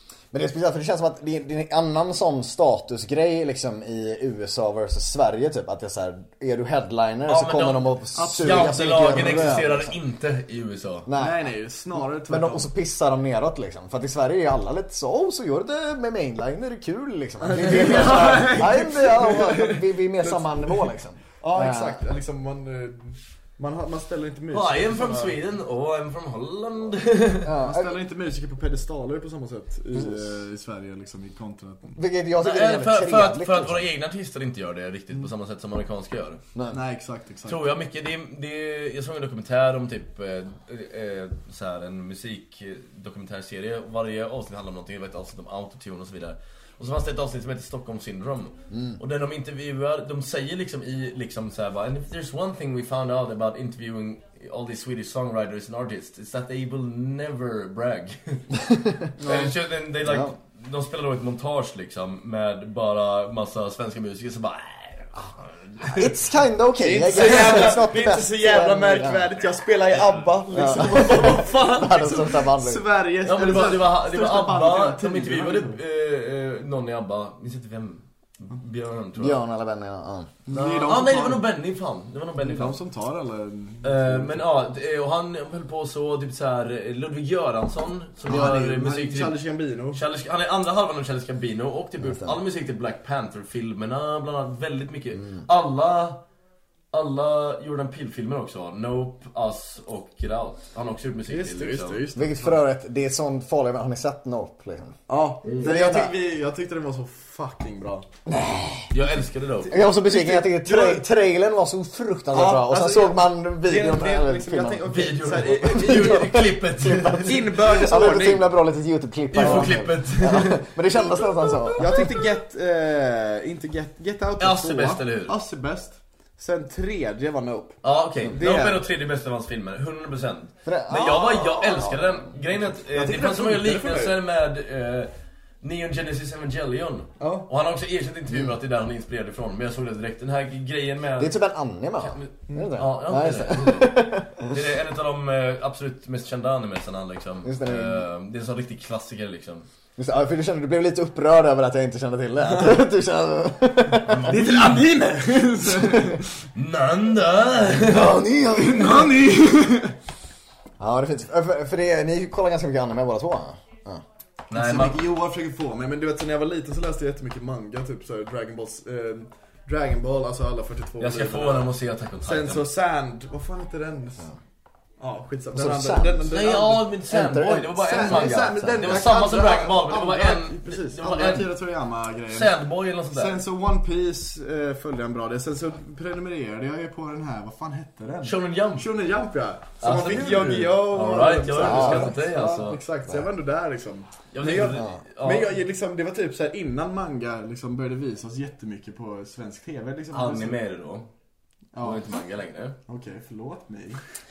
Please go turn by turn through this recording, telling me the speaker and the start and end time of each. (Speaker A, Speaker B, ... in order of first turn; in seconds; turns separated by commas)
Speaker A: 0.3-9.9, Speaker B: 7.3-11.1, Speaker C: 8.1-9.5, Speaker A: 11.1-22.0, Speaker C: 11.2-12.7, Speaker C: 17.4-25.4, Speaker B: 17.6-18.6, Speaker B: 24.5-27.5, Speaker A: 27.4-28.0, Speaker C: 27.6-32.0, Speaker A: 32.0-33.9, Speaker B: 32.4-36.4, Speaker C: 36.7-37.8, Speaker B: 37.5-58.6, Speaker A: 48.7-49.0, Speaker A: 58.5-60.3, Speaker B: 59.2-66.1, Speaker A: 65.8-69.3, Speaker B: 66.8-67.9, Speaker C: 66.8-75.8, Speaker B: 69.9-72.2, Speaker A: 70.5-72.8, Speaker B: 73.2-79.4, Speaker A: 79.2-80.3, Speaker C: 80.5-81.5, Speaker B: 80.5-82.8, Speaker C: 82.4-84.4, Speaker B: 83.8-89.4, Speaker C: 88.2-90.0, Speaker B: 89.9-96.2, Speaker A: 92.0-92.4, Speaker A: 95.2-95.4, Speaker B: 96.9-102.0, Speaker C: 101.3-102.6, Speaker A: 102.1-105.0, Speaker C: 105.1-108.1, Speaker A: 105.6-106.1, Speaker A: 108.3-108.9, Speaker B: 108.9-109.7, Speaker C: 109.7-111.1, Speaker A: 109.7-122.1, Speaker C: 112.3-116.2, Speaker B: 114.9-117.4, Speaker C: 117.2-118.5, Speaker B: 119.3-120.7, Speaker C: 119.4-119.8, Speaker C: 121.8-127.8, Speaker B: 124.4-125.3, Speaker B: 127.8-135.1, Speaker A: 128.2-128.8, Speaker A: 130.7-132.3, Speaker C: 132.6-134.2, Speaker B: 135.6-141.3, Speaker C: 137.2-137.5, Speaker A: 141.2-144.5, Speaker B: 142.0-149.7, Speaker A: 147.4-148.1, Speaker A: 150.0-154.4, Speaker C: 152.4-152.8, Speaker B: 154.1-154.9, Speaker C: 154.2-156.3, Speaker A: 155.7-156.2, Speaker B: 156.5-158.2, Speaker A: 157.8-159.1, Speaker C: 158.5-159.9, Speaker A: 160.8-164.0, Speaker B: 164.5-165.0, Speaker C: 164.5-174.3, Speaker B: 171.0-172.7, Speaker C: 175.0-176.9, Speaker A: 175.5-176.4, Speaker B: 176.3-181.5, Speaker A: 177.1-179.0, Speaker C: 177.8-200.6, Speaker B: 182.3-183.4, Speaker B: 188.2-188.9, Speaker B: 189.8-192.8, Speaker A: 191.6-192.2, Speaker B: 194.3-195.5, Speaker B: 200.1-201.1, Speaker C: 201.7-202.1, Speaker B: 201.8-202.8, Speaker C: 202.9-204.0